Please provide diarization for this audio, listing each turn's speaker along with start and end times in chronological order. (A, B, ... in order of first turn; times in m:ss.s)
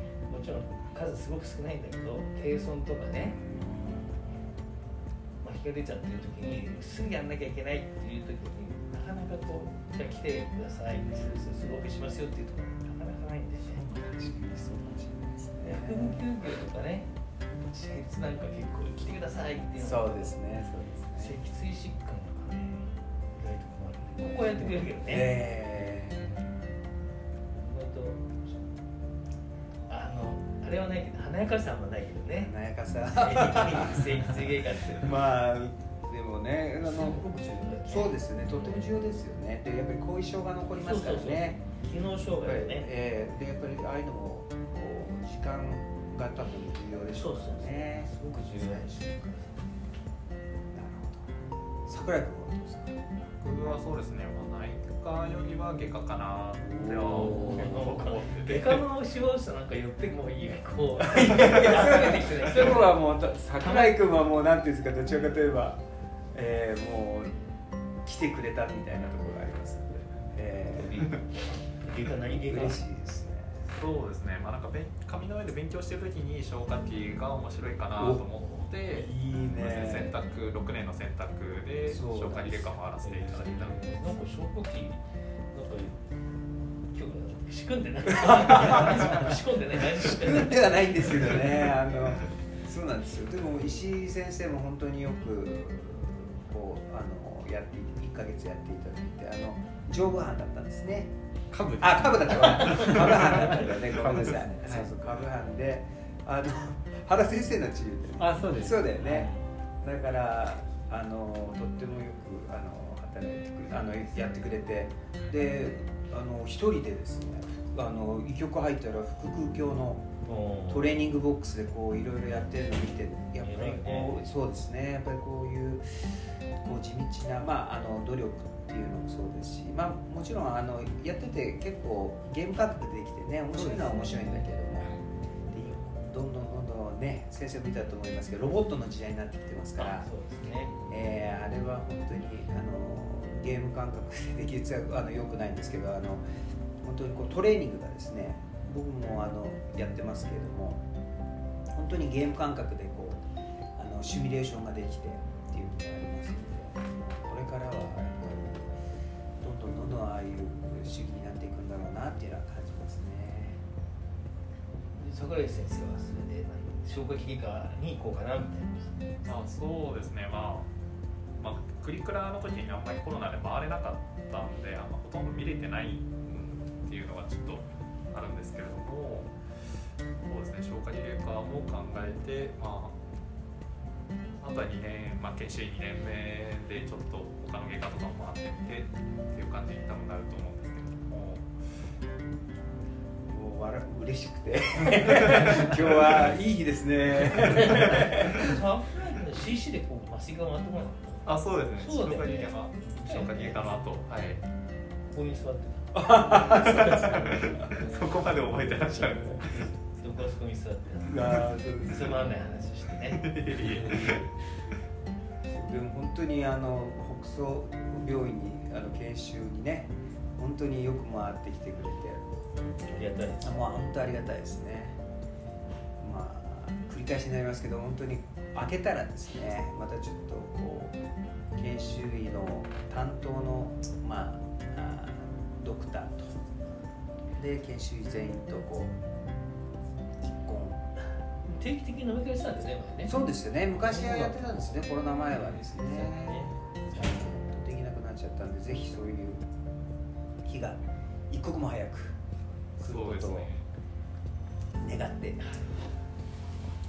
0:00.3-0:03.4 A
0:03.2-0:04.3 B
0:05.4-0:13.9 A
0:13.6-0:16.2 B
0:15.6-0:17.1 A
0:17.7-0:20.4 A
0:19.8-0:21.4 B
0:21.2-0:25.4 A
0:24.5-0:26.4 B
0:27.5-0:28.7 A
0:29.9-0:32.5 A
0:32.4-0:34.1 B
0:33.1-0:35.1 A
0:35.0-0:37.3 B
0:36.8-0:38.9 A
0:37.9-0:41.6 B
0:40.8-0:42.9 A
0:42.4-0:49.2 B
0:47.1-0:49.6 A
0:50.7-0:51.3 B
0:51.9-0:53.0 B
0:53.4-0:58.8 C
0:56.8-0:57.7 B
0:56.9-1:03.0 A
1:01.1-1:05.8 B
1:03.6-1:04.0 A
1:06.3-1:07.3 B
1:08.0-1:11.2 B
1:10.7-1:12.8 A
1:12.3-1:13.6 B
1:13.7-1:24.0 C
1:18.0-1:18.2 B
1:18.3-1:18.7 A
1:18.9-1:20.2 B
1:21.9-1:22.8 B
1:23.0-1:25.0 A
1:25.5-1:26.0 A
1:26.9-1:31.3 A
1:28.1-1:29.2 B
1:30.0-1:41.1 B
1:41.5-1:43.6 D
1:41.8-1:49.3 B
1:44.5-1:44.9 D
1:48.2-1:49.3 D
1:49.8-2:00.1 B
2:00.2-2:01.0 A
2:00.7-2:15.0 B
2:03.4-2:04.2 A
2:13.8-2:15.0 D
2:15.5-2:20.1 B
2:19.8-2:20.7 A
2:20.6-2:21.0 D
2:20.9-2:26.2 B
2:26.8-2:30.8 B
2:31.7-2:33.2 B
2:33.8-2:38.7 B
2:39.4-2:43.6 B
2:45.0-2:49.1 A
2:49.2-2:50.7 C
2:51.4-2:59.3 C
3:00.2-3:03.0 C
3:04.4-3:11.5 C
3:13.3-3:18.6 B
3:17.4-3:23.9 A
3:21.2-3:24.4 C
3:25.1-3:34.3 A
3:25.9-3:27.8 B
3:27.6-3:29.6 C
3:29.1-3:29.4 B
3:31.0-3:32.2 B
3:33.1-3:34.2 C
3:35.4-3:42.2 B
3:42.6-3:43.5 A
3:43.4-3:45.0 B
3:46.0-3:51.0 B
3:51.6-3:56.3 B
3:57.4-3:59.0 B
4:00.2-4:00.9 B
4:01.5-4:03.1 A
4:03.1-4:09.4 B
4:03.7-4:07.3 A
4:10.4-4:12.2 B
4:12.8-4:13.6 C
4:12.8-4:13.5 B
4:14.8-4:15.4 B